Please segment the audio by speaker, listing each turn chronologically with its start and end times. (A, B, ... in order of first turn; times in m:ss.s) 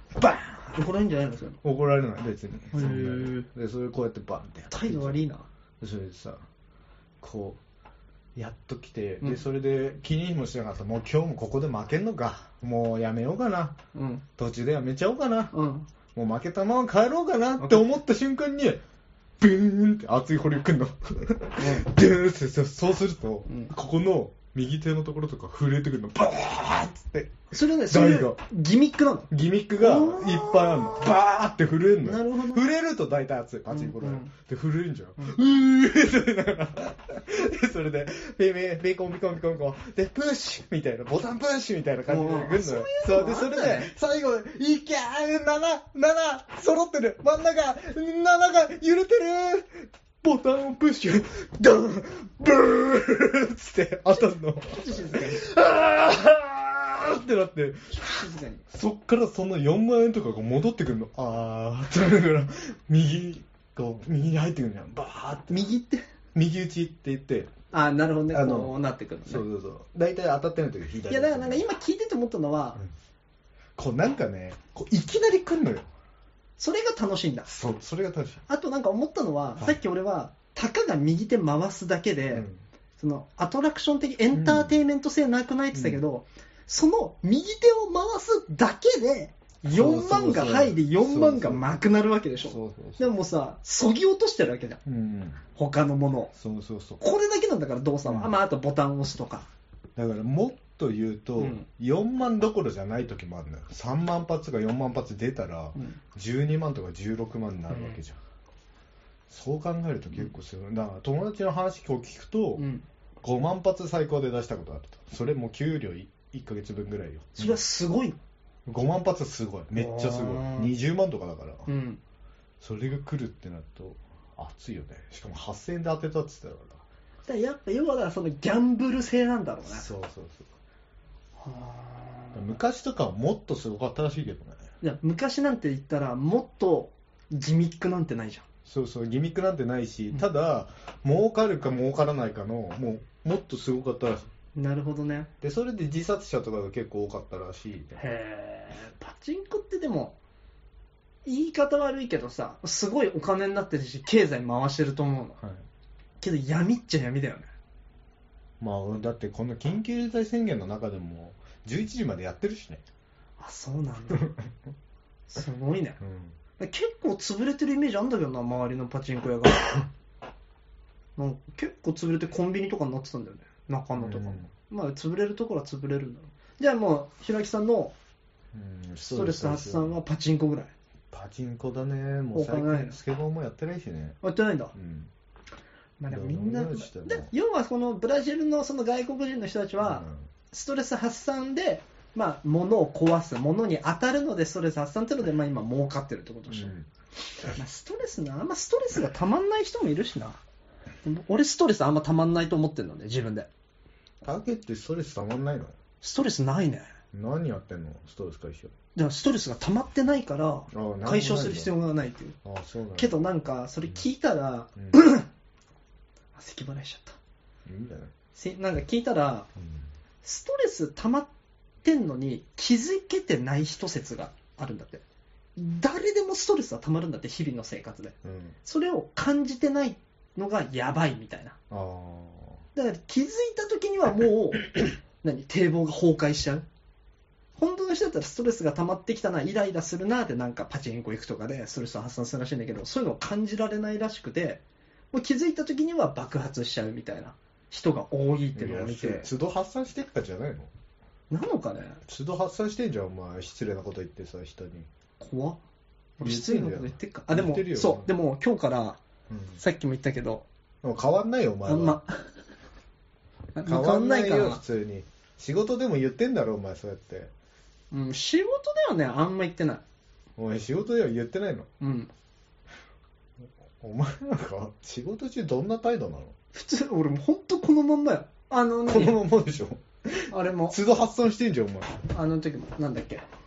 0:00.2-0:01.6 A
0:01.6-0:05.2 B
0:02.7-0:03.5 A
0:04.7-0:05.5 A
0:05.8-0:06.4 B
0:07.2-0:07.6 B
0:08.3-0:13.8 B
0:13.9-0:14.2 A
0:14.4-0:15.5 B
0:15.5-0:15.9 A
0:16.1-0:18.8 B
0:19.4-0:28.4 B
0:21.6-0:21.9 A
0:23.5-0:23.7 A
0:27.5-0:31.1 A
0:29.3-0:58.2 B
0:32.0-0:32.6 A
0:33.7-0:34.3 A
0:42.1-0:43.9 A
0:54.1-0:55.4 A
0:57.9-0:58.6 A
0:58.7-1:05.7 B
1:05.5-1:06.0 A
1:06.3-1:07.5 B
1:07.7-1:09.4 A
1:08.3-1:08.7 B
1:09.2-1:11.6 B
1:11.1-1:12.8 A
1:13.8-1:15.9 B
1:16.6-1:17.5 A
1:17.5-1:18.4 B
1:18.5-1:22.4 A
1:22.3-1:22.6 B
1:23.0-1:34.8 A
1:24.3-1:24.7 B
1:25.7-1:26.0 B
1:29.7-1:31.6 B
1:32.4-1:33.1 B
1:34.8-1:35.4 B
1:35.5-1:36.3 A
1:36.3-1:37.0 B
1:37.0-1:39.5 A
1:38.0-1:38.3 B
1:40.0-1:48.2 B
1:41.4-1:41.6 A
1:47.7-1:48.0 A
1:49.3-1:52.6 B
1:52.6-1:52.8 A
1:53.2-1:57.6 B
1:57.4-1:58.2 A
1:58.6-2:01.7 B
1:59.8-2:00.7 A
2:01.7-2:02.0 A
2:02.6-2:06.8 B
2:07.2-2:09.9 A
2:09.6-2:10.5 B
2:11.4-2:12.5 A
2:12.3-2:14.6 B
2:14.8-2:18.4 A
2:18.6-2:24.3 B
2:24.5-2:25.3 A
2:25.4-2:28.0 B
2:28.0-2:30.2 A
2:31.2-2:35.4 A
2:35.4-2:35.6 B
2:36.2-2:37.5 A
2:38.6-2:42.8 B
2:43.4-2:44.3 A
2:44.1-2:44.5 B
2:45.3-2:46.0 A
2:46.0-2:46.4 B
2:46.6-2:49.9 A
2:51.2-2:57.9 A
2:54.0-2:54.5 B
2:58.5-3:00.0 B
2:59.0-3:00.7 A
3:01.1-3:04.2 B
3:02.3-3:03.0 A
3:04.2-3:04.7 A
3:04.7-3:05.1 B
3:06.0-3:16.7 A
3:06.1-3:07.3 B
3:09.8-3:10.3 B
3:16.5-3:16.9 B
3:17.5-3:20.4 A
3:21.0-3:23.5 A
3:24.2-3:25.8 B
3:26.0-3:26.9 A
3:27.1-3:28.7 B
3:28.9-3:32.4 A
3:30.7-3:31.7 B
3:32.4-3:33.1 B
3:33.0-3:35.3 A
3:34.8-3:35.0 B
3:36.3-3:37.2 A
3:37.6-3:38.1 B
3:38.3-3:39.5 A
3:39.6-3:39.9 B
3:40.2-3:41.3 A
3:41.8-3:45.0 A
3:45.6-3:51.6 A
3:48.2-3:48.6 B
3:51.7-3:52.6 B
3:52.8-3:56.6 A
3:57.6-4:09.3 A
4:08.5-4:10.7 B
4:11.3-4:12.0 A
4:12.0-4:14.9 B
4:15.2-4:15.6 A
4:16.2-4:19.0 A
4:16.2-4:18.1 B
4:19.3-4:19.6 B
4:19.6-4:20.4 A
4:20.8-4:22.0 B
4:21.6-4:22.3 A
4:23.5-4:24.6 A
4:23.6-4:27.3 B
4:27.9-4:29.8 A
4:30.4-4:31.7 B
4:31.8-4:32.1 A
4:33.8-4:36.3 B
4:36.5-4:39.2 A
4:38.8-4:42.0 B
4:40.3-4:40.8 A
4:42.1-4:43.2 A